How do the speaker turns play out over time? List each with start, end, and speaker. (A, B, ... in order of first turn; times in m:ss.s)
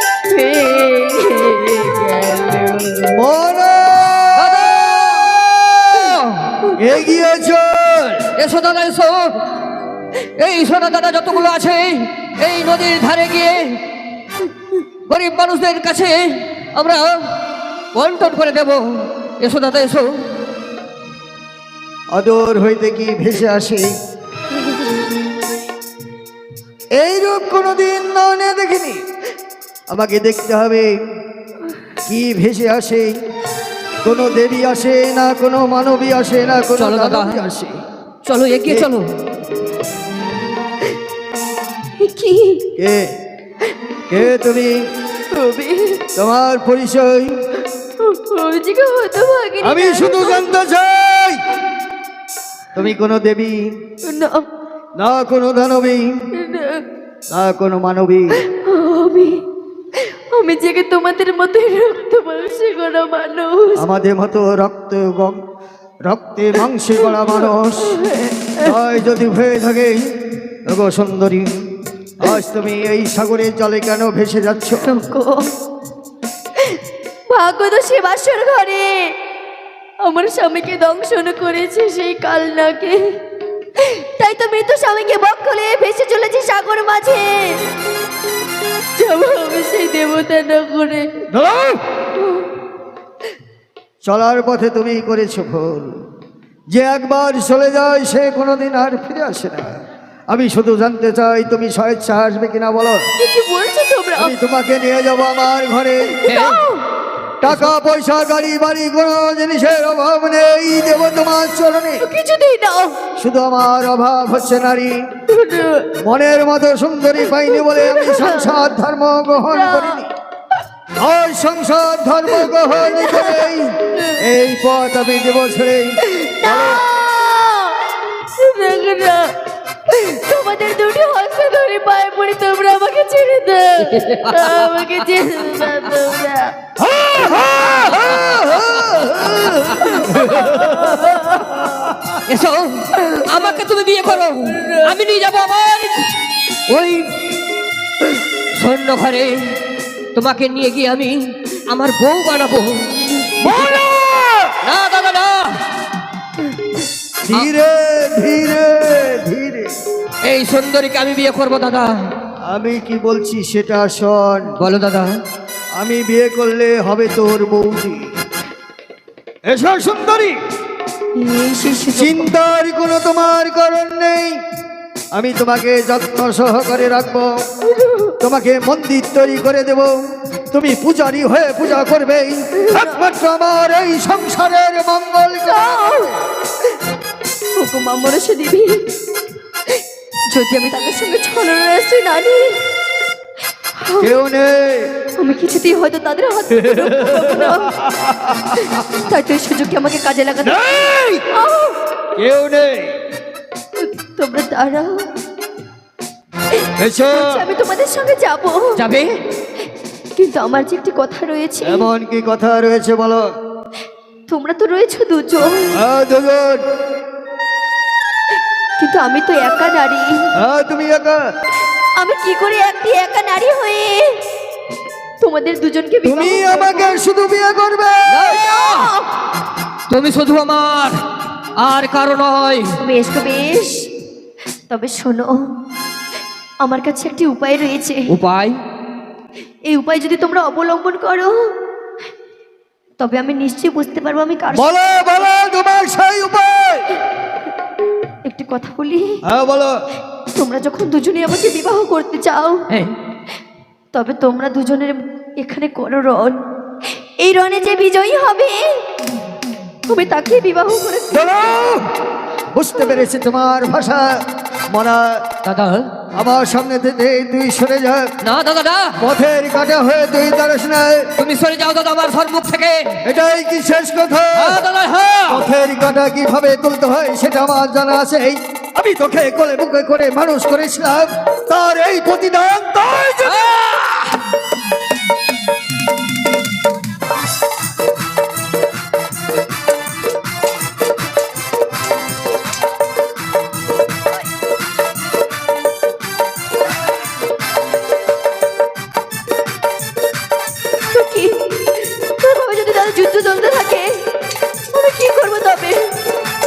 0:00.3-0:03.2 A
0:03.1-0:04.6 B
0:04.4-0:06.6 C
0:06.7-0:08.3 B
0:08.4-0:09.4 C
0:10.2-0:13.8 C
0:15.1-0:17.2 C
0:18.0-0:20.1 C
0:22.1-0:23.9 B
0:27.0-0:29.0 B
0:29.9-0:30.9 B
0:32.1-0:33.2 B
0:34.0-0:37.8 B
0:36.8-0:37.4 C
0:38.2-0:39.1 C
0:42.0-0:42.7 A
0:42.8-0:43.1 B
0:44.1-0:44.8 B
0:45.3-0:46.0 A
0:46.2-0:47.4 B
0:48.0-0:50.5 A
0:49.6-0:51.4 B
0:52.7-0:53.6 B
0:54.0-0:54.5 A
0:55.0-0:56.3 B
0:56.3-0:56.8 A
0:57.3-0:58.4 B
0:58.5-0:59.4 A
1:00.0-1:03.8 A
1:03.8-1:05.4 B
1:06.1-1:08.0 B
1:07.9-1:08.7 A
1:08.6-1:10.1 B
1:10.7-1:11.6 B
1:12.2-1:14.9 B
1:14.8-1:15.5 A
1:16.6-1:19.1 A
1:20.0-1:23.2 A
1:23.8-1:27.6 A
1:29.0-1:31.1 A
1:31.3-1:31.8 B
1:32.2-1:32.5 A
1:34.0-1:36.0 B
1:36.7-1:43.0 B
1:43.2-1:44.3 A
1:44.2-1:46.3 B
1:46.2-1:46.8 A
1:46.2-1:46.6 C
1:47.4-1:52.0 B
1:52.0-1:53.0 A
1:53.2-1:55.0 B
1:55.3-1:55.9 A
1:56.0-2:00.1 B
1:57.4-1:58.7 A
1:59.5-2:00.0 A
2:01.0-2:06.8 B
2:06.1-2:09.3 A
2:09.9-2:16.6 A
2:13.8-2:15.0 C
2:16.8-2:21.0 B
2:17.7-2:20.0 C
2:19.8-2:21.7 A
2:22.1-2:26.1 C
2:26.7-2:27.1 C
2:28.6-2:29.4 C
2:30.2-2:33.8 C
2:33.4-2:34.6 B
2:34.6-2:35.6 C
2:37.2-2:39.7 B
2:40.3-2:42.0 C
2:42.5-2:44.5 B
2:44.6-2:45.1 C
2:45.8-2:48.0 B
2:49.5-2:50.4 B
2:51.2-2:52.3 A
2:52.0-2:54.4 B
2:55.1-2:57.4 B
2:57.6-2:58.2 A
2:58.2-3:00.0 B
3:00.5-3:06.1 B
3:02.6-3:03.1 A
3:05.4-3:06.2 A
3:07.6-3:08.9 A
3:10.3-3:12.6 A
3:13.8-3:14.2 A
3:14.0-3:14.9 B
3:15.2-3:17.8 A
3:16.7-3:18.6 B
3:18.8-3:20.6 A
3:20.4-3:21.3 B
3:21.3-3:21.8 A
3:22.2-3:22.9 B
3:23.8-3:25.1 A
3:26.8-3:27.4 B
3:27.0-3:28.8 A
3:28.8-3:29.2 C
3:30.2-3:31.9 A
3:31.6-3:33.2 B
3:34.3-3:35.8 A
3:35.7-3:36.6 B
3:38.8-3:40.3 A
3:40.4-3:41.2 B
3:42.0-3:44.2 A
3:45.2-3:47.0 A
3:46.0-3:48.4 B
3:48.1-3:48.9 C
3:48.3-3:49.1 A
3:49.9-3:51.0 C
3:51.6-3:52.7 C
3:52.8-3:53.9 A
3:54.7-3:55.5 A
3:56.6-3:58.1 A
3:58.1-3:58.6 C
3:59.7-4:01.5 A
4:03.0-4:04.7 A
4:04.5-4:06.9 B
4:08.2-4:09.2 A
4:09.2-4:09.8 B
4:10.3-4:12.7 A
4:13.9-4:16.4 A
4:17.2-4:18.8 A
4:19.9-4:21.4 A
4:21.1-4:21.9 B
4:22.5-4:24.2 B
4:24.7-4:25.2 B
4:25.4-4:25.9 C
4:26.1-4:28.1 B
4:28.2-4:29.0 C
4:29.0-4:31.1 B
4:31.2-4:33.0 C
4:33.0-4:34.6 B
4:34.4-4:35.5 C
4:35.3-4:43.6 B
4:43.2-4:44.2 C
5:00.9-5:04.1 A
5:04.7-5:06.0 A